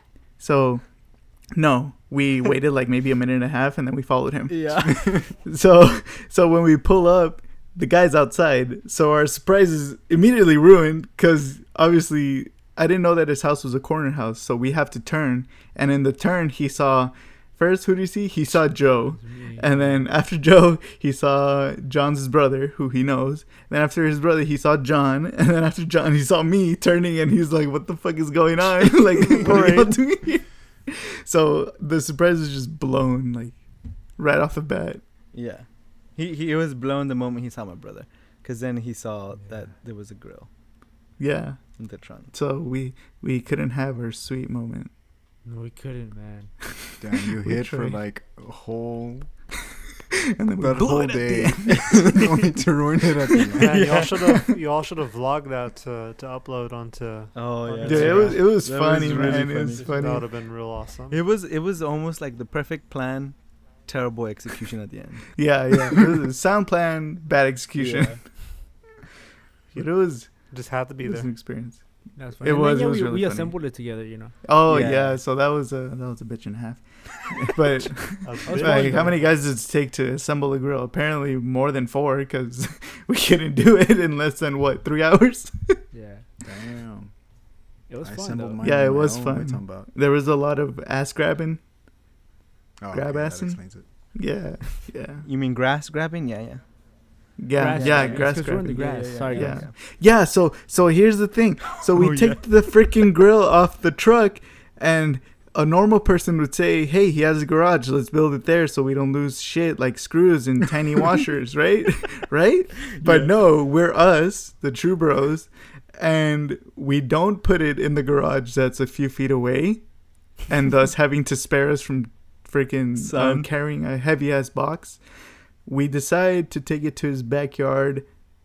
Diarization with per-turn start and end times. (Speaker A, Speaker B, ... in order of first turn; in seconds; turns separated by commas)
Speaker A: 0.4-35.0, Speaker B: 4.5-5.1, Speaker C: 19.1-20.1, Speaker D: 29.3-30.0, Speaker B: 35.3-40.5, Speaker A: 41.2-44.9, Speaker B: 41.8-42.3, Speaker C: 45.4-46.5, Speaker E: 47.0-49.3, Speaker A: 47.4-48.0, Speaker A: 50.4-52.2, Speaker E: 50.6-54.0, Speaker D: 53.6-58.6, Speaker B: 53.7-54.1, Speaker A: 53.7-54.4, Speaker B: 57.3-65.5, Speaker A: 57.8-60.3, Speaker D: 59.2-61.2, Speaker A: 65.3-68.8, Speaker B: 67.8-68.4, Speaker A: 69.7-85.8, Speaker D: 70.5-71.3, Speaker C: 72.1-74.4, Speaker B: 74.7-75.2, Speaker D: 78.2-79.3, Speaker C: 78.5-79.3, Speaker C: 85.9-86.2, Speaker E: 86.4-87.3, Speaker C: 87.9-88.6, Speaker E: 88.0-89.9, Speaker A: 88.6-91.6, Speaker E: 92.8-94.1, Speaker A: 92.9-95.2, Speaker B: 95.2-96.9, Speaker A: 97.4-128.2, Speaker C: 97.5-99.7, Speaker B: 97.7-99.7, Speaker B: 101.8-102.9, Speaker B: 112.9-113.3, Speaker B: 123.0-123.5